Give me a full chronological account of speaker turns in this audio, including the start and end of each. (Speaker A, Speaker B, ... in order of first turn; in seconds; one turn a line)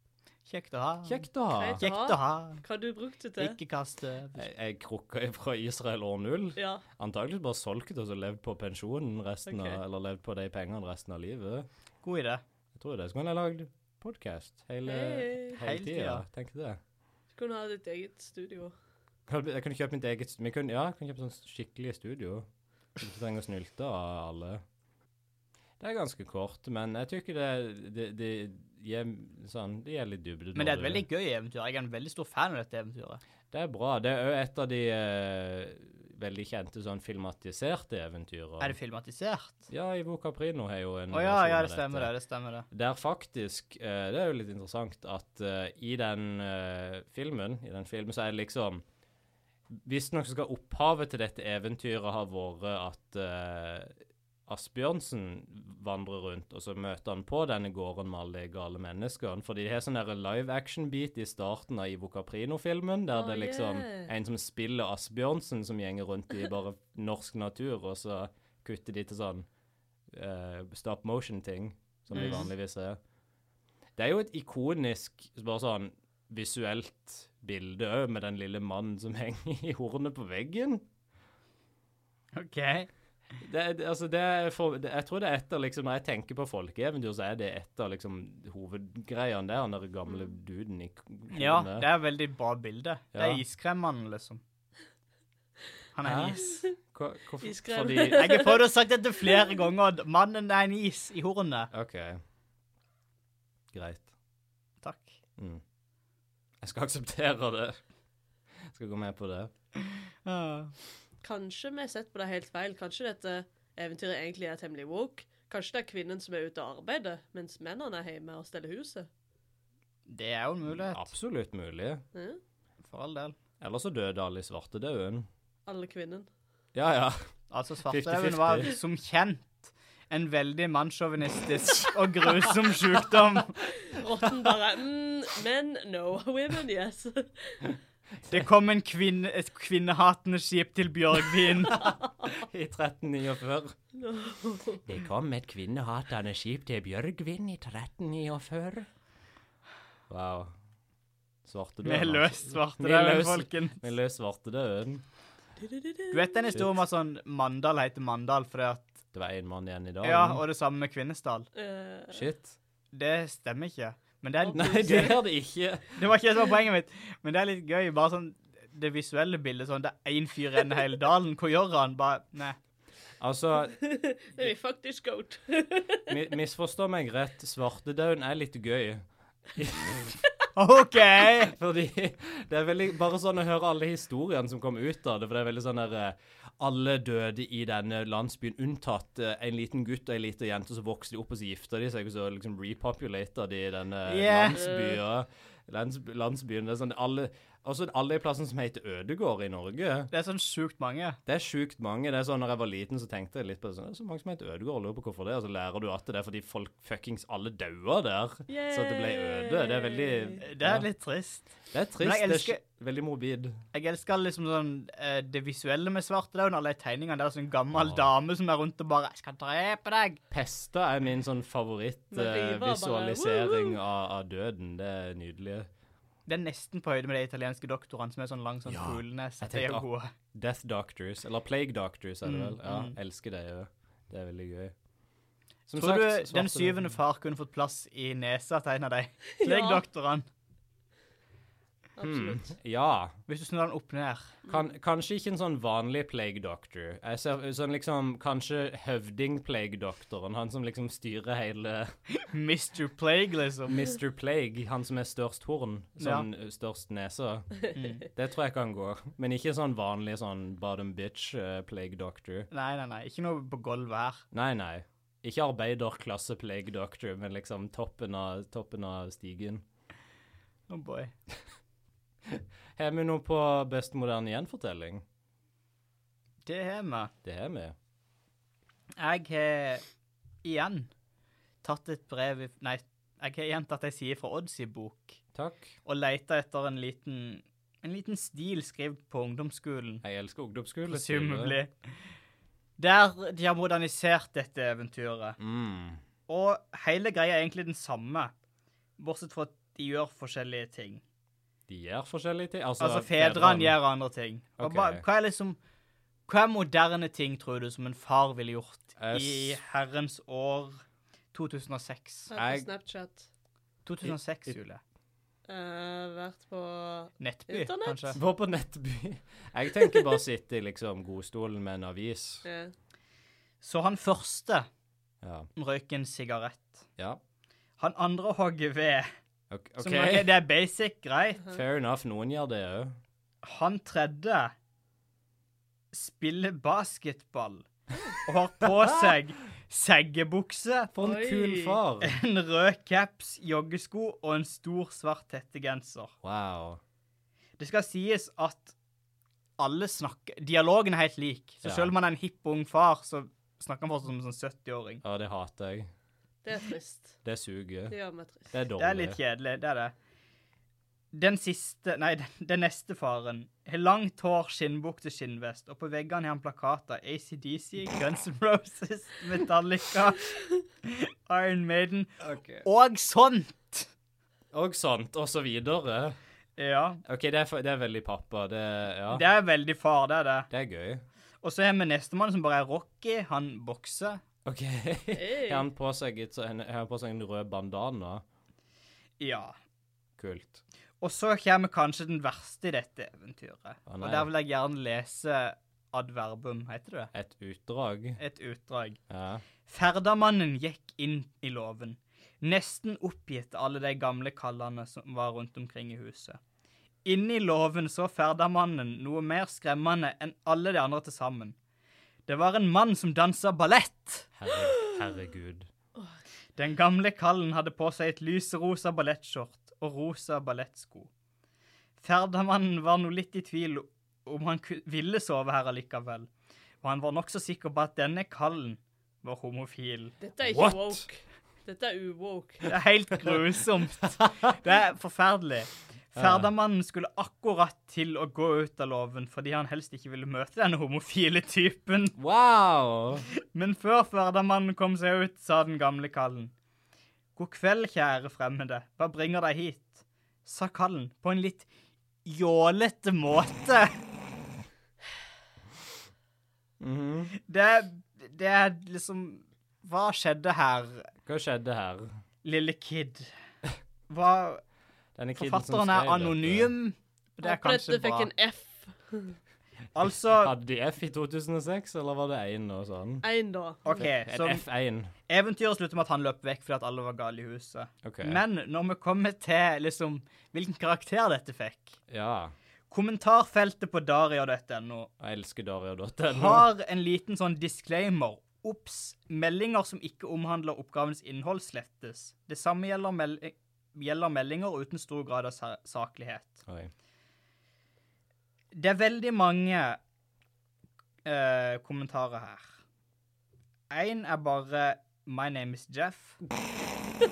Speaker A: 0.5-1.3
Speaker B: 1.1-1.9
Speaker C: 1.5-3.6
Speaker A: 1.8-2.6
Speaker A: 3.4-4.5
Speaker B: 4.4-11.7
Speaker C: 6.6-6.8
Speaker C: 9.5-9.8
Speaker A: 12.0-12.4
Speaker B: 12.8-16.8
Speaker C: 14.9-15.6
Speaker A: 15.6-16.2
Speaker C: 17.3-18.7
Speaker B: 19.3-22.5
Speaker B: 23.0-24.6
Speaker B: 25.8-31.0
Speaker A: 30.6-33.2
Speaker B: 33.5-38.8
Speaker A: 38.6-39.7
Speaker B: 39.7-42.1
Speaker A: 41.1-42.7
Speaker B: 42.7-48.8
Speaker B: 49.7-54.0
Speaker B: 54.5-69.5
Speaker C: 63.1-64.1
Speaker B: 70.1-73.0
Speaker A: 72.1-72.5
Speaker B: 74.0-80.8
Speaker A: 82.3-82.9
Speaker B: 83.4-91.9
Speaker A: 91.3-94.4
Speaker B: 93.1-93.4
Speaker A: 96.0-96.6
Speaker B: 96.0-98.4
Speaker C: 96.4-96.7
Speaker C: 97.4-98.6
Speaker A: 98.1-101.7
Speaker C: 99.2-99.6
Speaker B: 101.7-102.2
Speaker B: 103.7-104.1
Speaker A: 104.8-105.2
Speaker B: 105.4-105.6
Speaker B: 106.6-107.8
Speaker B: 108.7-109.5
Speaker A: 110.2-110.7
Speaker C: 111.2-119.1
Speaker A: 120.1-121.1
Speaker B: 120.9-122.0
Speaker C: 122.1-122.4
Speaker A: 122.8-123.3
Speaker B: 123.6-125.3
Speaker C: 125.7-126.3
Speaker B: 126.8-127.2
Speaker A: 127.5-133.6
Speaker B: 127.9-128.7
Speaker C: 133.7-137.7
Speaker A: 138.3-141.9
Speaker B: 141.7-143.8
Speaker C: 143.9-144.8
Speaker B: 144.9-148.9
Speaker B: 150.1-150.5
Speaker B: 151.4-155.0
Speaker A: 151.8-153.8
Speaker C: 155.6-156.4
Speaker A: 156.1-159.0
Speaker B: 159.1-160.4
Speaker A: 160.0-161.5
Speaker C: 161.6-162.3
Speaker B: 162.1-162.6
Speaker A: 162.9-165.2
Speaker C: 164.4-165.2
Speaker B: 164.5-166.0
Speaker A: 166.0-172.6
Speaker B: 173.2-173.8
Speaker C: 173.8-176.1
Speaker B: 176.1-179.0
Speaker B: 179.6-180.2
Speaker A: 180.6-181.5
Speaker B: 181.2-200.1
Speaker A: 194.1-194.6
Speaker C: 194.5-195.0
Speaker A: 200.1-201.2
Speaker B: 201.3-210.9
Speaker C: 208.5-210.4
Speaker A: 210.4-212.6
Speaker B: 211.7-213.6
Speaker A: 213.7-220.2
Speaker B: 217.8-218.1
Speaker B: 220.3-225.7
Speaker C: 222.1-223.8
Speaker A: 226.3-230.1
Speaker B: 228.7-234.7
Speaker A: 232.2-233.0
Speaker B: 235.7-236.9
Speaker A: 235.8-240.3
Speaker C: 239.4-239.8
Speaker C: 242.0-242.5
Speaker B: 242.0-243.2
Speaker A: 243.3-244.4
Speaker B: 244.5-251.9
Speaker A: 252.2-253.9
Speaker B: 253.7-257.6
Speaker A: 256.0-256.3
Speaker A: 257.7-258.0
Speaker B: 258.1-262.5
Speaker A: 262.5-264.2
Speaker B: 264.3-269.6
Speaker A: 270.7-271.1
Speaker B: 272.3-275.0
Speaker A: 276.4-277.1
Speaker B: 277.2-277.8
Speaker A: 279.0-279.8
Speaker A: 280.4-280.9
Speaker A: 281.6-285.2
Speaker B: 285.4-285.8
Speaker A: 285.9-290.0
Speaker B: 290.0-291.6
Speaker A: 290.9-291.7
Speaker A: 292.8-295.4
Speaker B: 295.4-296.0
Speaker A: 296.3-298.3
Speaker A: 299.0-301.0
Speaker B: 301.7-303.8
Speaker A: 302.8-305.6
Speaker B: 304.6-305.0
Speaker A: 306.3-310.8
Speaker B: 309.0-309.6
Speaker A: 311.3-312.3
Speaker C: 312.3-313.3
Speaker B: 312.3-312.7
Speaker A: 313.9-314.8
Speaker B: 314.0-314.6
Speaker C: 315.5-318.2
Speaker A: 317.2-318.2
Speaker B: 318.1-322.4
Speaker C: 322.4-322.7
Speaker A: 323.6-324.7
Speaker B: 325.2-325.5
Speaker A: 325.6-326.9
Speaker A: 327.8-329.1
Speaker B: 329.5-330.3
Speaker A: 329.8-331.5
Speaker B: 331.5-333.0
Speaker A: 333.4-334.5
Speaker A: 335.9-337.7
Speaker A: 338.2-340.9
Speaker B: 340.9-342.2
Speaker C: 341.0-341.8
Speaker A: 342.0-346.1
Speaker B: 346.2-346.8
Speaker A: 347.6-348.8
Speaker A: 349.6-355.0
Speaker B: 351.6-351.9
Speaker B: 355.0-355.9
Speaker C: 356.4-357.2
Speaker B: 357.2-357.9
Speaker C: 357.9-358.5
Speaker B: 358.5-359.2
Speaker A: 358.8-359.9
Speaker A: 361.1-372.1
Speaker B: 372.2-372.6
Speaker A: 372.6-373.9
Speaker B: 374.5-376.2
Speaker A: 376.6-377.0
Speaker B: 377.1-379.2
Speaker A: 379.1-380.5
Speaker B: 380.5-381.0
Speaker A: 381.4-384.2
Speaker B: 384.5-388.2
Speaker C: 385.1-385.6
Speaker A: 389.2-389.6
Speaker B: 390.2-390.6
Speaker A: 391.0-397.1
Speaker B: 393.9-394.3
Speaker B: 397.1-398.2
Speaker A: 398.2-399.0
Speaker B: 399.1-399.4
Speaker A: 399.7-406.4
Speaker A: 407.1-411.6
Speaker A: 412.3-414.3
Speaker B: 414.4-415.7
Speaker A: 416.6-421.1
Speaker A: 422.0-426.3
Speaker A: 426.8-430.1
Speaker C: 430.2-432.7
Speaker B: 430.4-431.1
Speaker A: 432.7-442.2
Speaker B: 434.1-434.6
Speaker B: 436.1-436.5
Speaker B: 442.2-443.3
Speaker A: 443.3-446.5
Speaker A: 447.4-451.7
Speaker A: 452.2-454.0
Speaker B: 456.8-457.4
Speaker A: 457.4-461.1
Speaker B: 461.3-462.2
Speaker A: 462.4-463.3
Speaker A: 464.1-464.6
Speaker B: 465.2-466.7
Speaker A: 465.4-468.3
Speaker C: 467.4-469.4
Speaker A: 469.9-470.5
Speaker B: 470.4-473.2
Speaker C: 473.2-474.0
Speaker A: 473.9-474.6
Speaker B: 473.9-475.1
Speaker A: 475.3-482.0
Speaker B: 478.0-478.4
Speaker B: 482.1-482.5
Speaker A: 482.9-485.1
Speaker B: 485.2-486.7
Speaker A: 486.3-496.6
Speaker B: 496.7-496.9
Speaker A: 498.7-500.0
Speaker A: 501.2-502.8
Speaker A: 503.9-506.4